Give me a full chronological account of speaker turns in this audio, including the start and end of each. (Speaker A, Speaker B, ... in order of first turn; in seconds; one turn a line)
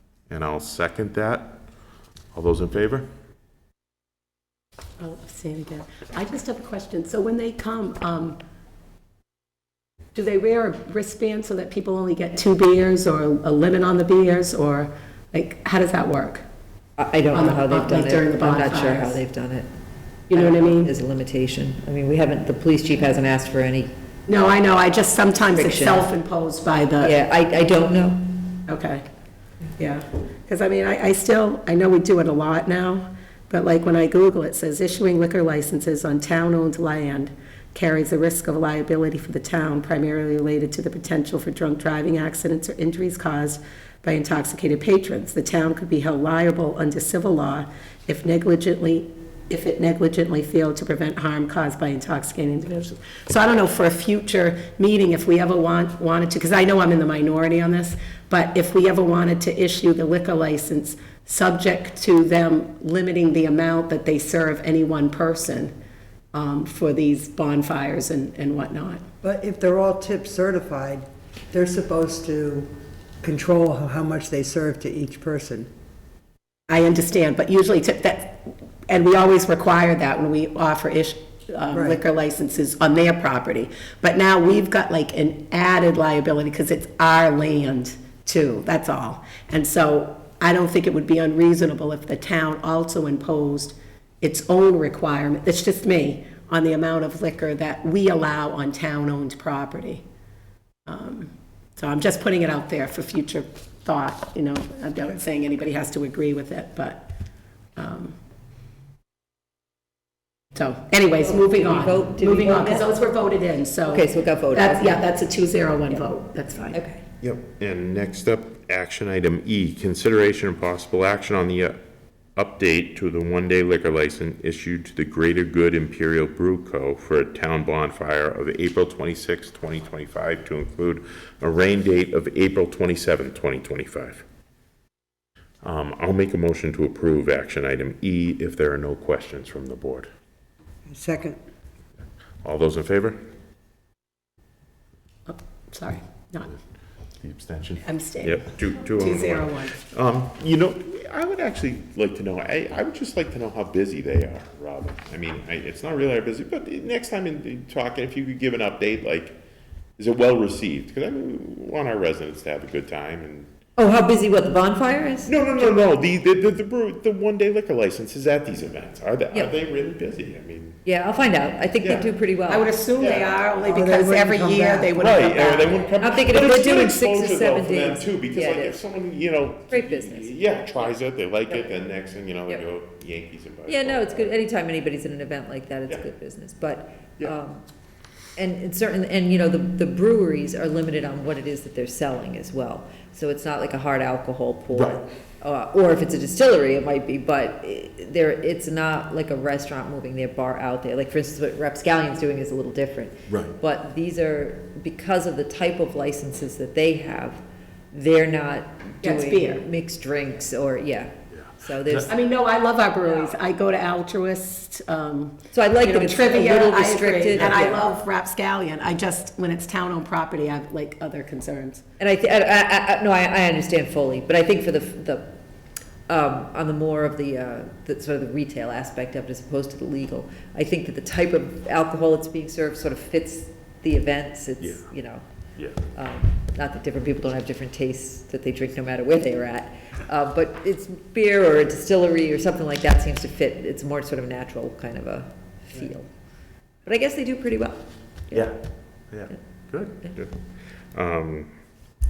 Speaker A: 0.3-1.6
Speaker A: 2.3-3.1
Speaker B: 5.0-8.4
Speaker B: 10.1-16.4
Speaker C: 17.0-19.7
Speaker B: 17.3-19.2
Speaker B: 20.3-20.9
Speaker C: 20.3-23.9
Speaker B: 24.3-27.1
Speaker C: 25.5-26.1
Speaker C: 27.0-28.5
Speaker B: 28.7-29.0
Speaker B: 29.8-65.7
Speaker B: 66.3-69.0
Speaker D: 69.2-75.7
Speaker B: 76.7-100.0
Speaker D: 81.7-82.0
Speaker B: 100.8-107.1
Speaker B: 107.8-108.1
Speaker B: 110.5-116.8
Speaker C: 111.2-112.9
Speaker C: 113.9-115.0
Speaker C: 116.7-117.0
Speaker A: 117.2-121.8
Speaker A: 122.3-134.2
Speaker A: 135.6-140.1
Speaker D: 140.9-141.4
Speaker A: 142.4-143.2
Speaker B: 145.3-146.5
Speaker A: 147.2-159.4
Speaker B: 147.8-149.8
Speaker A: 160.0-163.5
Speaker C: 163.8-165.3
Speaker A: 165.2-170.8
Speaker C: 170.8-172.7
Speaker A: 171.8-172.1
Speaker B: 172.5-175.9
Speaker A: 173.0-173.3
Speaker D: 173.6-174.9
Speaker A: 174.9-184.3
Speaker C: 176.0-178.8
Speaker C: 179.7-180.4
Speaker C: 183.7-187.6
Speaker C: 188.3-212.1
Speaker A: 194.7-195.0
Speaker A: 203.3-203.5
Speaker B: 209.0-209.6
Speaker A: 211.3-212.1
Speaker B: 212.1-221.8
Speaker C: 215.5-217.8
Speaker C: 222.0-225.3
Speaker C: 226.1-235.2
Speaker A: 234.6-234.9
Speaker A: 235.6-235.8
Speaker C: 235.8-246.1
Speaker C: 246.8-248.5
Speaker A: 249.1-250.4
Speaker A: 250.9-251.5